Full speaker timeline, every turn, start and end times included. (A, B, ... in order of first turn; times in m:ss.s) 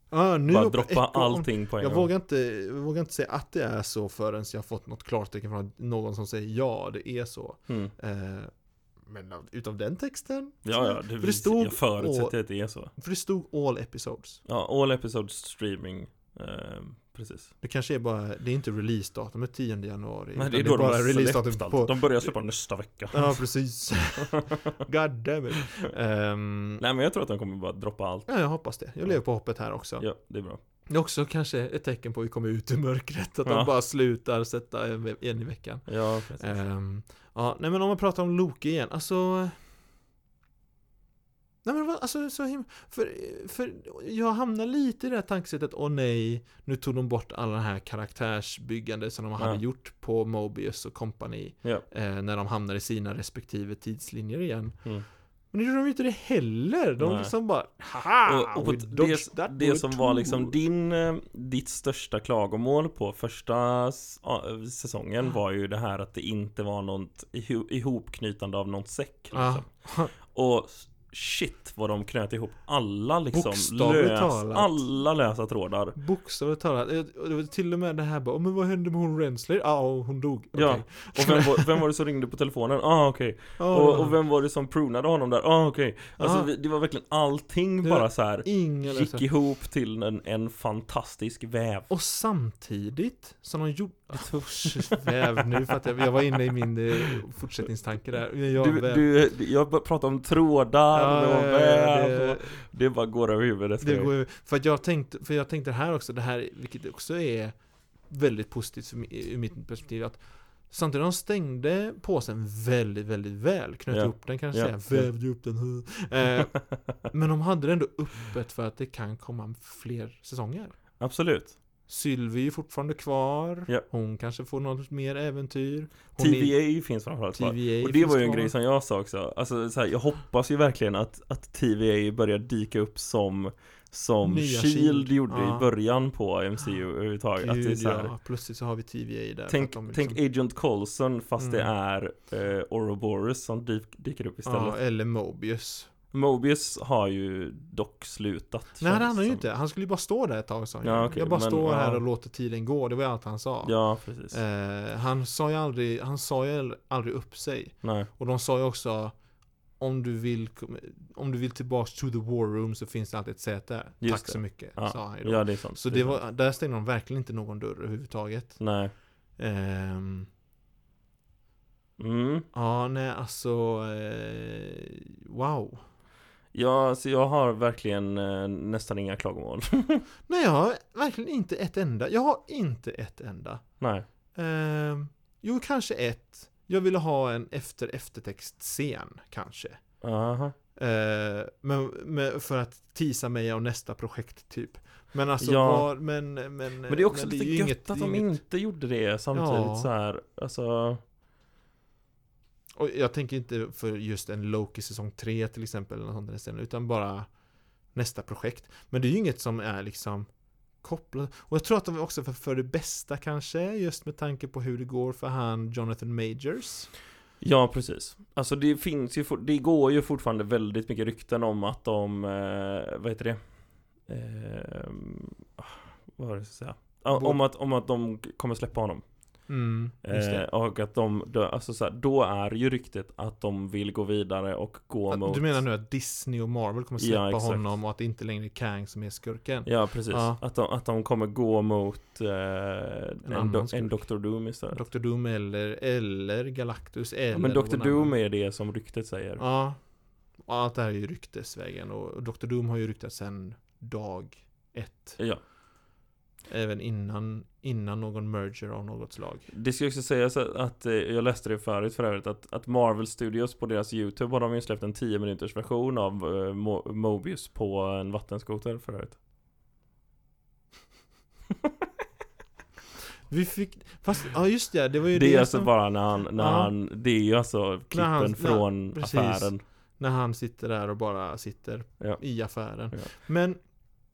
0:00.1-0:14.4 A
0:00.5-0:02.1 B
0:07.7-0:07.9 B
0:10.6-0:12.9 B
0:14.4-0:17.5 B
0:17.6-0:22.5 A
0:20.4-0:23.5 B
0:23.1-0:26.8 A
0:26.8-0:28.3 B
0:28.3-0:30.1 A
0:30.0-0:30.6 B
0:30.9-0:39.7 A
0:33.4-0:33.7 B
0:35.9-0:36.6 B
0:41.6-1:00.6 A
0:57.0-0:57.4 B
0:58.2-1:16.0 B
1:09.3-1:10.1 A
1:13.3-1:14.9 A
1:16.0-1:21.7 A
1:20.5-1:31.9 B
1:23.6-1:24.2 A
1:26.2-1:26.5 A
1:27.8-1:29.2 A
1:31.9-1:39.0 A
1:34.1-1:35.4 B
1:38.6-1:44.1 B
1:40.9-1:42.6 A
1:43.8-2:00.8 A
1:53.9-1:55.1 B
2:01.0-2:01.6 B
2:01.9-2:08.5 A
2:06.2-2:18.1 B
2:14.2-2:15.7 A
2:17.4-2:20.2 A
2:19.5-2:24.8 B
2:21.4-2:21.7 A
2:24.4-2:25.9 A
2:26.1-2:29.4 B
2:28.8-2:39.2 A
2:30.8-2:32.0 B
2:33.6-2:34.4 B
2:37.8-2:38.1 B
2:39.8-2:50.3 A
2:44.0-2:46.2 B
2:48.6-2:48.9 B
2:52.0-2:52.5 B
2:52.5-2:55.8 A
2:56.5-3:00.0 B
3:00.3-3:03.8 A
3:03.8-3:04.0 B
3:04.3-3:10.0 A
3:10.0-3:10.6 B
3:10.8-3:18.4 A
3:15.4-3:15.9 B
3:16.9-3:21.0 B
3:19.3-3:19.9 A
3:22.8-3:27.3 A
3:27.9-3:36.9 A
3:37.4-3:49.5 B
3:47.1-3:47.4 A
3:49.5-3:50.5 A
3:50.0-3:55.6 B
3:55.1-4:00.4 A
3:57.0-3:57.7 B
3:59.6-4:04.8 B
4:03.2-4:08.2 A
4:07.3-4:09.4 B
4:09.4-4:15.5 A
4:15.2-4:15.4 B
4:16.4-4:19.5 A
4:19.5-4:29.2 B
4:33.3-4:36.7 A
4:35.1-4:39.6 B
4:37.9-4:43.6 A
4:42.0-4:43.1 B